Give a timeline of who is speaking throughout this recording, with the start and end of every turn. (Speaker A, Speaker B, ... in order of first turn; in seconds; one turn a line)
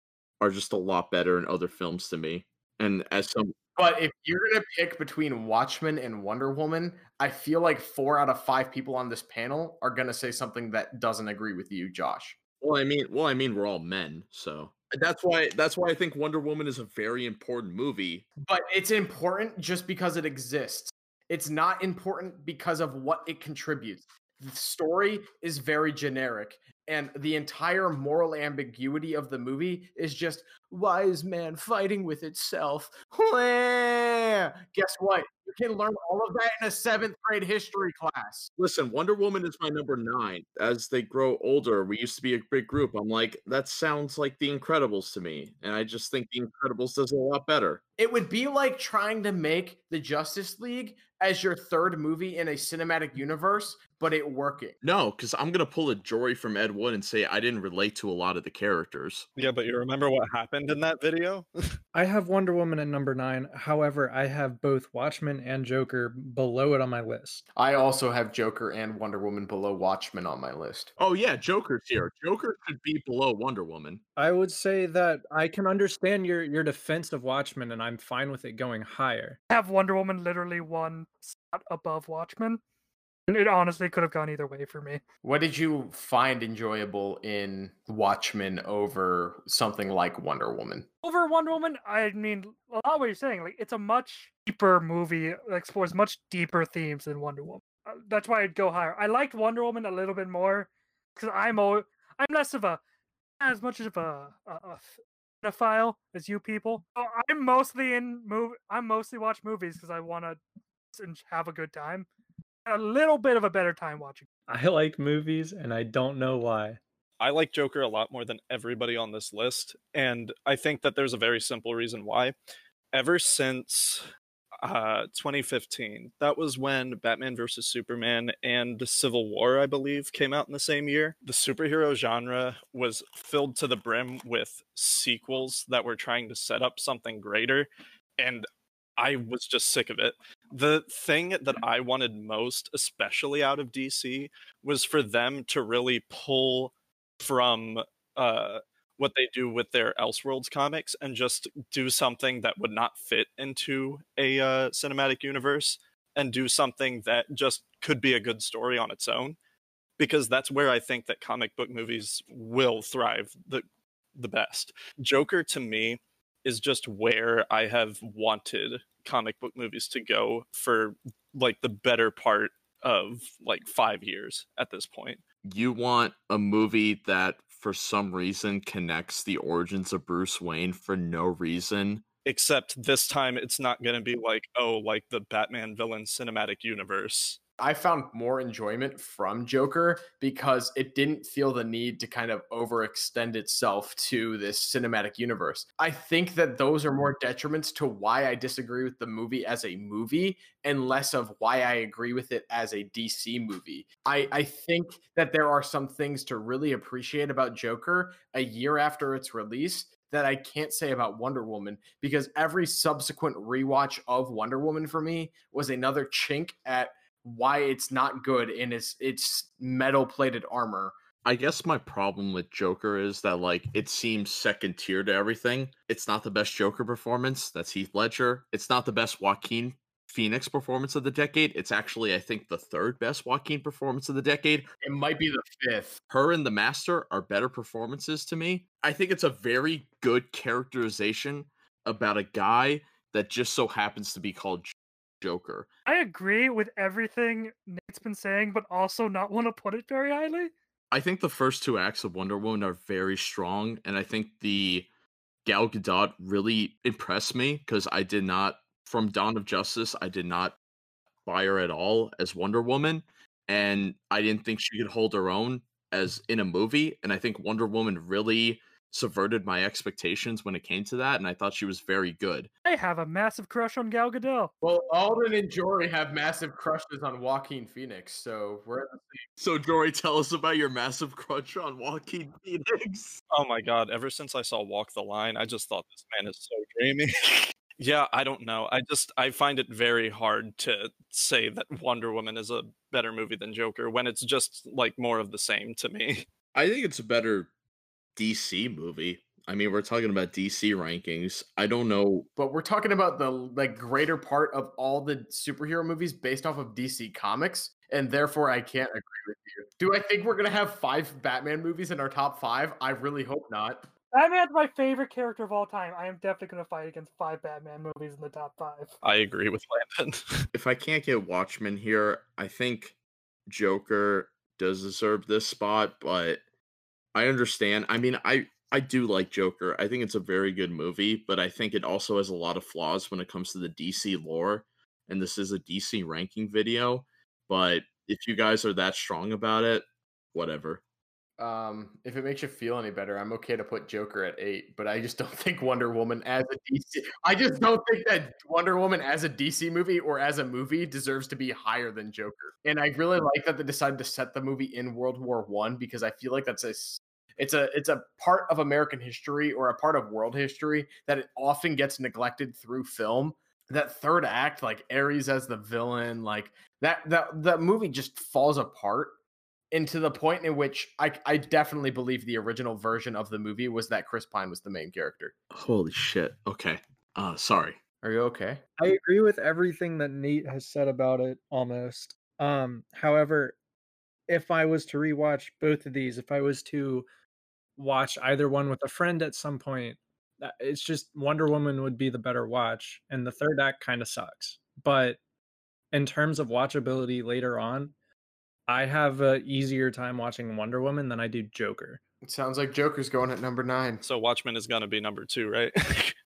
Speaker A: 0.4-3.5
Speaker B: 3.8-12.4
Speaker A: 12.6-18.2
Speaker B: 18.4-38.5
Speaker A: 38.6-47.8
Speaker B: 48.0-54.8
Speaker A: 54.8-59.2
Speaker C: 59.4-61.5
Speaker D: 61.9-67.4
Speaker B: 67.5-70.9
Speaker A: 71.0-74.0
Speaker D: 74.2-79.4
Speaker E: 79.5-82.6
Speaker E: 83.3-85.0
Speaker B: 85.2-90.9
Speaker E: 91.0-102.8
Speaker E: 103.4-110.4
Speaker E: 110.9-112.1
Speaker E: 112.7-114.3
Speaker D: 114.5-116.8
Speaker C: 117.2-122.3
Speaker C: 122.9-124.1
Speaker C: 124.6-137.7
Speaker C: 138.2-138.4
Speaker C: 139.0-159.4
Speaker C: 160.0-163.6
Speaker C: 164.1-175.2
Speaker A: 175.4-182.0
Speaker C: 182.2-187.4
Speaker B: 187.6-220.9
Speaker A: 221.2-234.7
Speaker B: 234.8-236.0
Speaker A: 236.1-245.7
Speaker E: 245.9-250.5
Speaker A: 250.9-254.9
Speaker A: 255.4-260.6
Speaker A: 261.2-272.5
Speaker E: 272.6-274.5
Speaker B: 274.6-279.2
Speaker A: 279.4-283.2
Speaker C: 283.3-296.2
Speaker A: 296.5-297.5
Speaker A: 298.1-302.3
Speaker B: 302.4-313.9
Speaker E: 314.1-318.9
Speaker C: 319.0-320.5
Speaker A: 320.5-322.9
Speaker A: 323.5-326.4
Speaker A: 327.1-340.8
Speaker B: 341.4-369.2
Speaker B: 369.7-375.3
Speaker A: 375.5-377.8
Speaker B: 378.0-378.6
Speaker D: 378.8-383.6
Speaker D: 384.3-387.0
Speaker D: 387.8-395.2
Speaker D: 395.9-397.9
Speaker D: 398.7-402.0
Speaker B: 402.2-404.0
Speaker C: 404.0-406.1